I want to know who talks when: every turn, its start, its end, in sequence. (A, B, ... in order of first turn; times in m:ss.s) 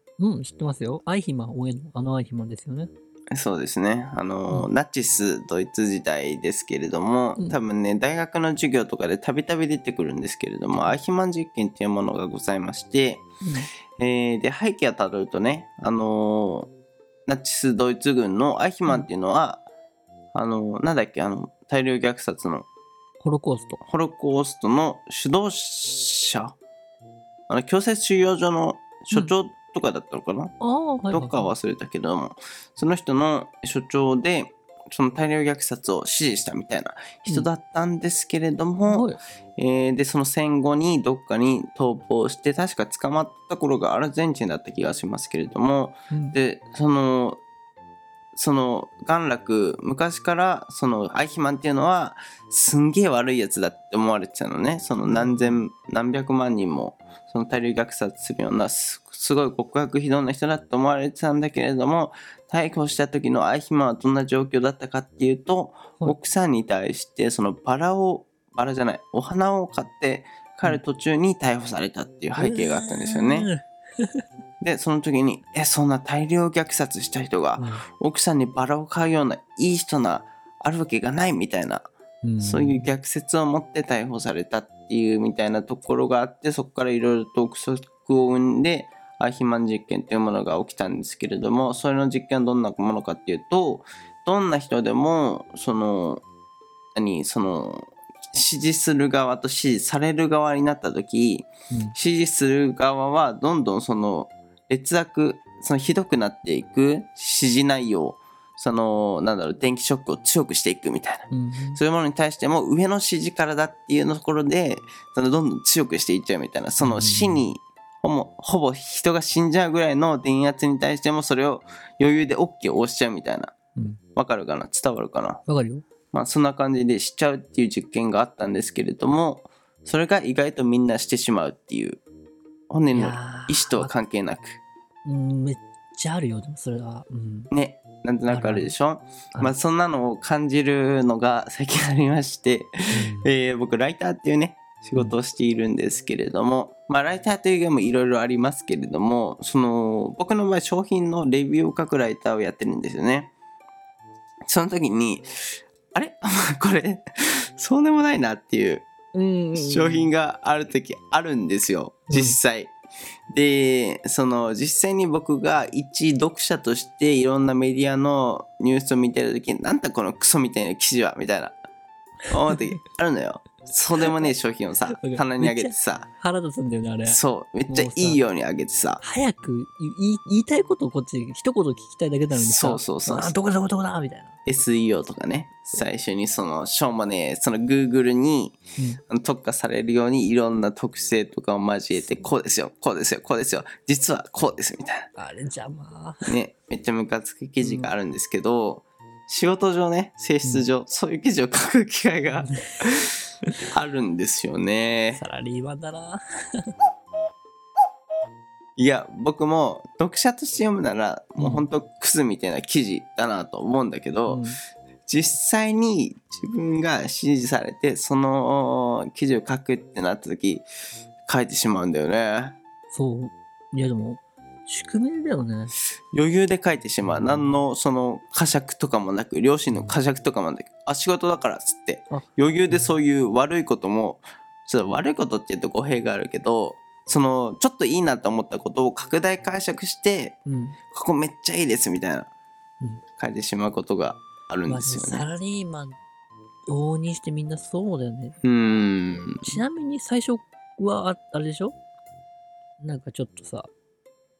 0:00.2-0:02.9 A
0:03.3-0:13.3 B
0:13.4-0:13.7 A
0:14.0-0:16.7 B
0:17.3-0:19.6 B
0:20.3-0:22.7 B
0:23.2-0:23.8 A
0:23.8-0:26.6 B
0:27.5-0:30.5 B
0:30.6-0:31.5 A
0:31.1-0:47.4 B
0:38.9-0:39.2 A
0:46.1-0:46.4 A
0:48.3-1:13.5 B
0:55.0-0:55.6 A
1:12.4-1:14.2 A
1:14.6-1:21.9 B
1:17.6-1:17.8 A
1:22.2-1:22.8 A
1:22.4-1:36.2 B
1:36.9-2:03.5 B
1:41.7-1:41.9 A
1:51.3-1:51.8 A
1:56.8-1:57.4 A
2:03.7-2:04.0 A
2:04.2-2:05.4 B
2:05.4-2:05.9 A
2:06.1-2:12.0 B
2:12.7-2:14.6 B
2:12.9-2:13.9 A
2:15.0-2:17.5 A
2:17.5-2:33.3 B
2:18.3-2:18.7 A
2:22.9-2:23.3 A
2:34.5-2:35.3 B
2:35.9-2:38.9 B
2:39.1-2:40.1 A
2:39.6-2:42.7 B
2:42.1-2:42.4 A
2:43.3-2:51.6 B
2:52.3-2:56.1 B
2:54.0-2:54.3 A
2:54.9-2:58.2 A
2:57.1-2:59.0 B
2:59.0-3:04.3 A
3:02.3-3:03.3 B
3:04.5-3:15.1 B
3:12.0-3:12.3 A
3:15.2-3:16.3 A
3:16.3-3:23.0 B
3:17.6-3:17.9 A
3:22.3-3:22.6 A
3:23.7-3:25.2 B
3:25.1-3:26.2 A
3:28.8-3:34.4 B
3:31.4-3:31.7 A
3:34.3-3:34.6 A
3:35.1-3:40.7 B
3:41.3-3:42.6 B
3:42.9-3:45.7 A
3:46.1-4:00.4 B
3:47.0-3:47.5 A
3:49.7-3:50.0 A
3:52.1-3:53.0 A
4:00.5-4:00.8 A
4:00.9-4:02.3 B
4:03.2-4:05.3 B
4:04.7-4:06.0 A
4:06.7-4:08.4 A
4:08.4-4:09.6 B
4:09.4-4:11.7 A
4:12.8-4:13.7 A